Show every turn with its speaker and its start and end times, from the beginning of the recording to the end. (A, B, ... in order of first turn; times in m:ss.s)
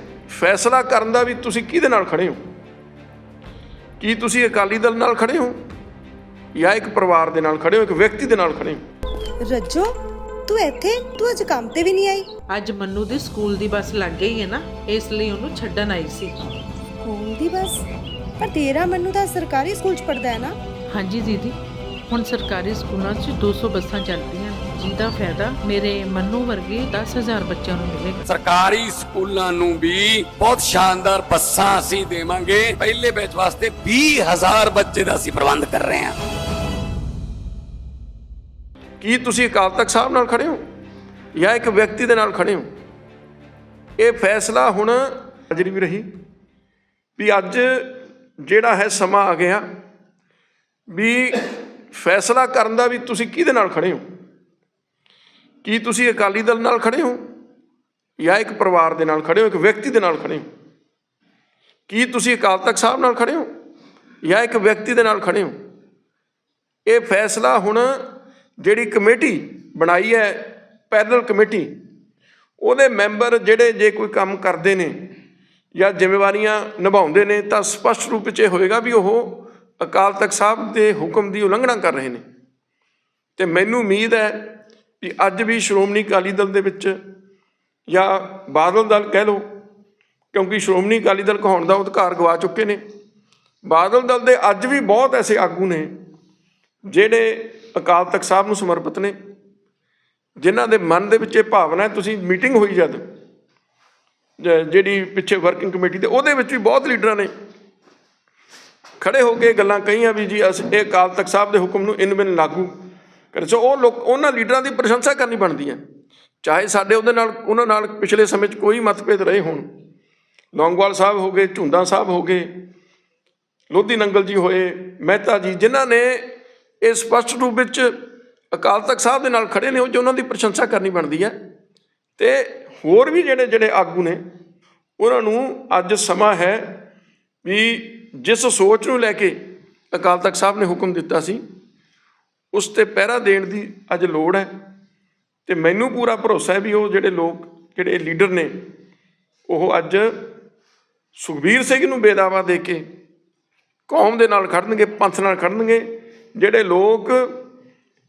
0:00.3-0:02.4 A
0:04.0-0:05.6 A
0:06.5-0:08.8 A
0:09.4-0:09.9 B
0:10.5-0:12.3 B
0:12.5-0:16.4 C
0:17.0-0:17.8 B
0:18.4-0:20.6 B
0:20.9-0:21.6 C
0:22.1-0:28.2 C
0:28.2-0:36.2 D
0:39.0-0:40.6 A
0:41.3-0:42.7 A
0:44.0-0:46.1 A
0:47.2-0:49.6 A
0:50.9-0:54.0 A
0:55.6-0:57.2 A
0:58.2-1:00.4 A
1:01.9-1:03.5 A
1:04.2-1:05.5 A
1:06.8-1:08.0 A
1:08.6-1:11.7 A
1:12.6-1:15.1 A
1:15.7-1:22.2 A
1:23.4-1:27.0 A
1:27.9-1:29.4 A
1:30.3-1:32.8 A
1:33.6-1:35.9 A
1:36.9-1:39.1 A
1:40.4-1:43.0 A
1:44.4-1:47.3 A
1:49.0-1:52.7 A
1:53.3-1:55.8 A
1:56.4-1:59.6 A
2:00.5-2:02.5 A
2:03.7-2:08.0 A
2:08.5-2:11.3 A
2:12.2-2:14.2 A
2:15.0-2:16.8 A
2:17.4-2:19.4 A
2:19.9-2:21.4 A
2:22.5-2:24.5 A
2:25.4-2:28.6 A
2:29.5-2:30.2 A
2:31.2-2:32.8 A
2:33.9-2:37.4 A